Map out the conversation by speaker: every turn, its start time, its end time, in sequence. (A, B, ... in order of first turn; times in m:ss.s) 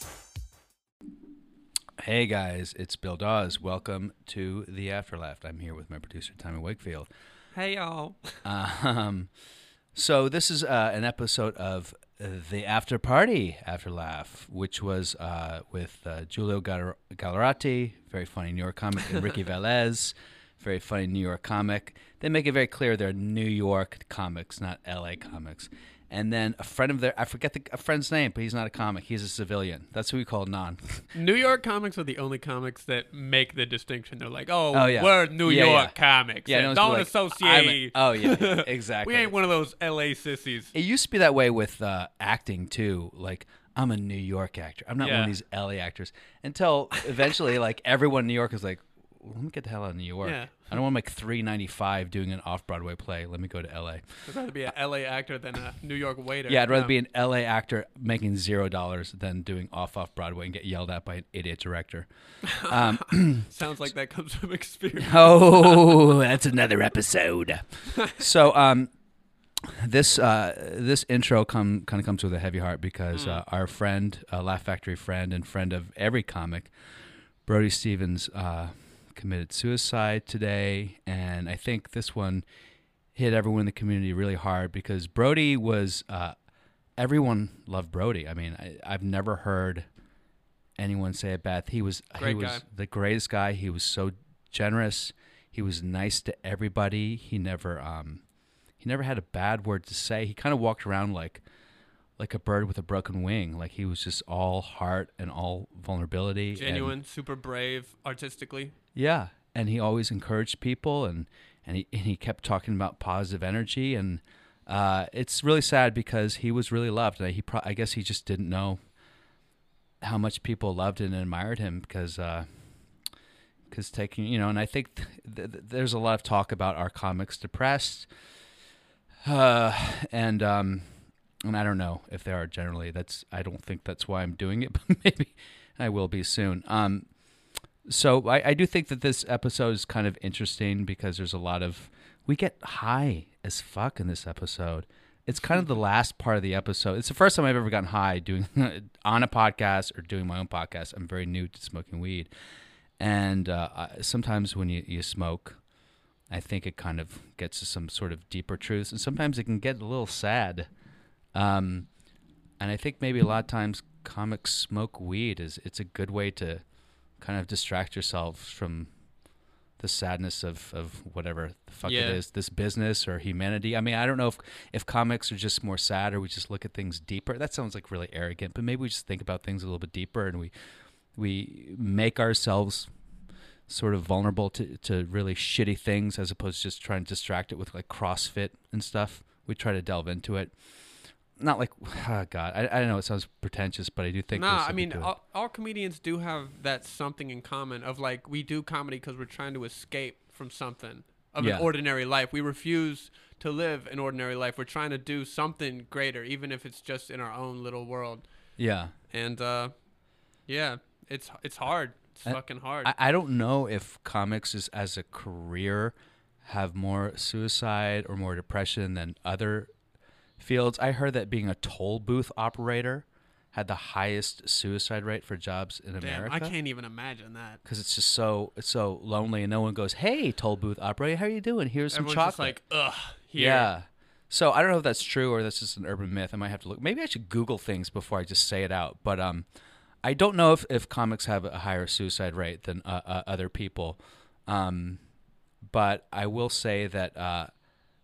0:02.0-0:07.1 A
0:07.5-0:08.2 B
0:08.4-0:09.3 A
0:09.9-0:31.1 A
0:31.1-0:40.7 B
0:34.7-0:39.3 A
0:40.7-0:54.0 A
0:45.0-0:45.3 B
0:50.2-0:50.7 B
0:54.2-0:56.9 B
0:56.5-1:03.5 A
1:02.4-1:06.0 B
1:05.0-1:08.9 A
1:07.9-1:08.2 B
1:09.6-1:16.7 A
1:13.1-1:13.4 B
1:17.4-1:22.4 A
1:23.1-1:26.3 A
1:27.0-1:29.9 A
1:30.8-1:38.2 A
1:32.2-1:32.6 B
1:38.8-1:41.4 A
1:42.2-1:47.0 A
1:46.5-1:48.7 B
1:48.9-1:58.8 A
2:00.0-2:02.5 A
2:03.7-2:08.1 A
2:09.2-2:10.8 A
2:11.4-2:17.1 A
2:17.8-2:32.3 A
2:33.0-2:35.6 A
2:36.3-2:40.7 A
2:41.3-2:41.9 A
2:42.6-2:46.6 A
2:47.2-2:48.9 A
2:49.8-3:00.5 A
2:51.8-2:52.2 B
3:01.1-3:02.9 A
3:03.7-3:10.5 A
3:11.4-3:15.1 A
3:14.3-3:28.2 B
3:21.4-3:21.7 A
3:28.6-3:28.9 A
3:29.1-3:29.7 B
3:30.4-3:32.9 B
3:32.2-3:39.7 A
3:40.4-3:46.5 A
3:46.0-3:47.6 B
3:47.6-3:52.6 A
3:51.9-3:53.7 B
3:53.3-3:59.4 A
4:00.0-4:05.0 A
4:05.6-4:07.5 A